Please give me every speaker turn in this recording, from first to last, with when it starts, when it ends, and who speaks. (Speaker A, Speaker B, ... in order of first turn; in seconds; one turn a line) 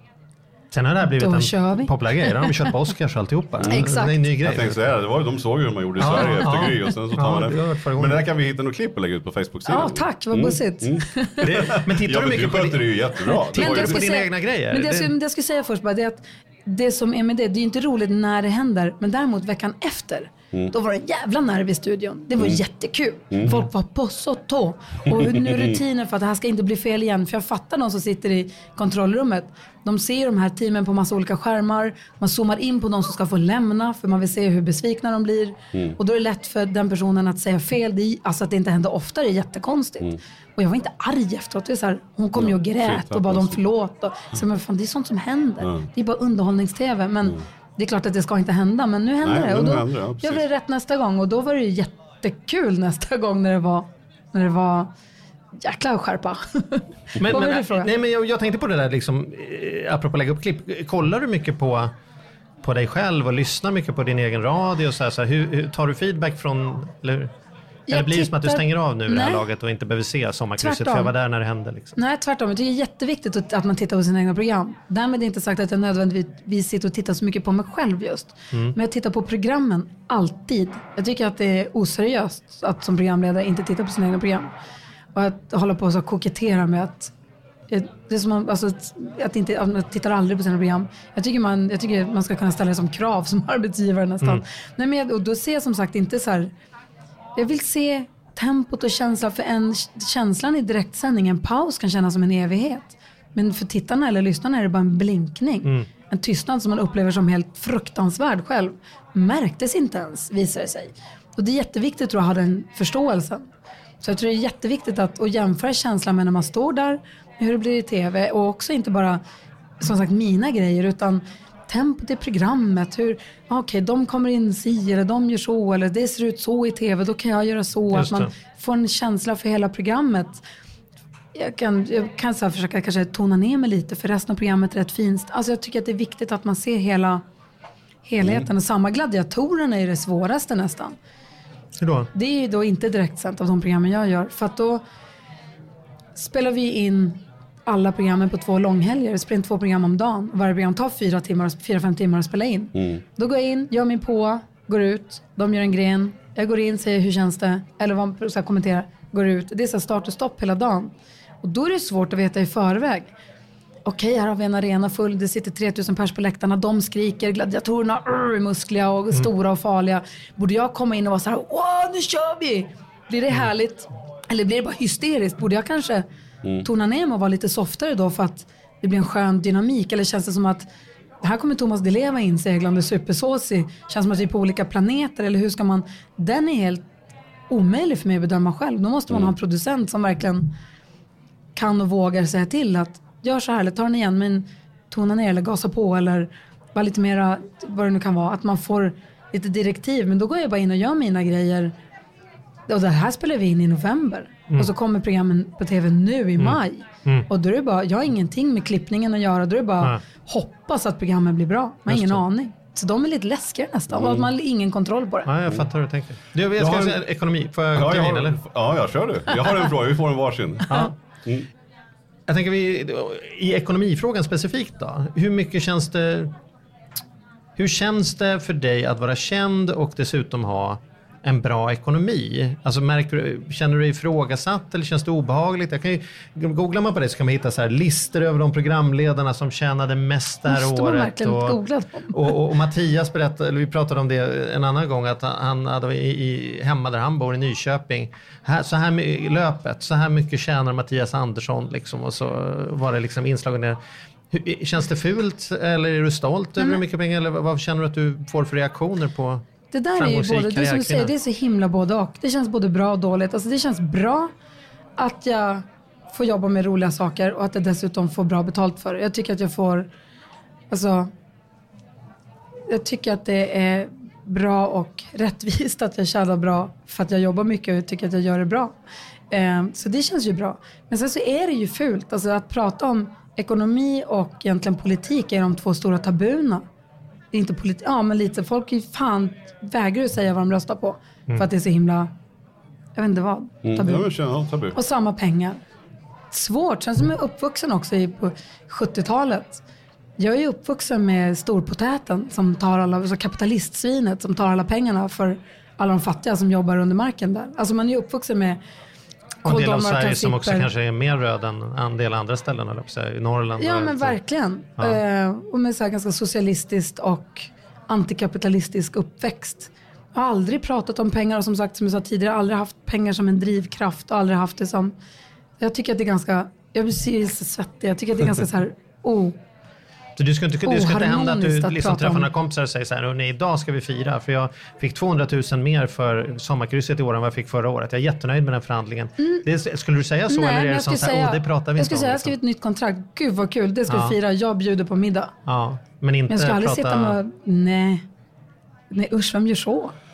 Speaker A: 0.7-4.8
Speaker B: 1.1-2.7
Speaker C: 3.6-3.9
Speaker B: 3.7-4.3
Speaker C: 4.4-14.1
Speaker A: 6.0-8.2
Speaker B: 6.0-6.5
Speaker B: 9.7-11.5
Speaker A: 11.4-15.1
Speaker B: 13.5-54.9
Speaker C: 23.3-23.6
Speaker C: 42.4-43.6
Speaker C: 45.6-45.9
Speaker C: 49.2-50.4
Speaker B: 55.6-57.9
Speaker A: 57.2-61.9
Speaker A: 62.6-67.3
Speaker B: 67.9-69.5
Speaker A: 67.9-72.0
Speaker B: 70.6-71.1
Speaker B: 72.0-84.5
Speaker B: 85.1-87.1
Speaker B: 87.7-96.5
Speaker B: 97.4-113.5
Speaker B: 114.0-119.2
Speaker B: 119.8-130.4
Speaker A: 127.9-128.3
Speaker B: 131.3-137.2
Speaker B: 138.1-141.0
Speaker A: 141.8-142.1
Speaker B: 142.1-144.8
Speaker B: 146.2-163.1
Speaker C: 152.8-153.0
Speaker B: 163.8-176.1
Speaker B: 176.6-180.7
Speaker B: 181.2-186.9
Speaker B: 187.5-190.5
Speaker B: 191.6-201.7
Speaker B: 202.7-215.3
Speaker A: 206.4-207.3
Speaker A: 211.9-212.2
Speaker C: 213.9-214.3
Speaker A: 215.3-218.4
Speaker C: 216.6-217.0
Speaker C: 217.7-221.5
Speaker A: 222.3-226.3
Speaker A: 227.6-241.6
Speaker B: 240.5-242.3
Speaker A: 242.1-253.8
Speaker A: 254.3-259.4
Speaker B: 256.6-256.8
Speaker B: 259.7-264.3
Speaker A: 259.9-261.1
Speaker B: 265.0-269.9
Speaker B: 270.7-271.1
Speaker B: 272.7-278.8
Speaker B: 279.3-286.6
Speaker B: 287.3-292.1
Speaker B: 292.9-294.1
Speaker C: 293.6-294.8
Speaker B: 294.7-295.6
Speaker B: 296.3-299.6
Speaker B: 300.2-308.6
Speaker B: 309.4-310.7
Speaker A: 309.4-314.2
Speaker B: 313.6-325.0
Speaker B: 325.6-329.4
Speaker A: 330.2-342.4
Speaker B: 330.6-332.3
Speaker B: 340.3-345.3
Speaker A: 343.9-344.2
Speaker A: 345.5-347.2
Speaker B: 346.3-348.1
Speaker B: 348.9-349.9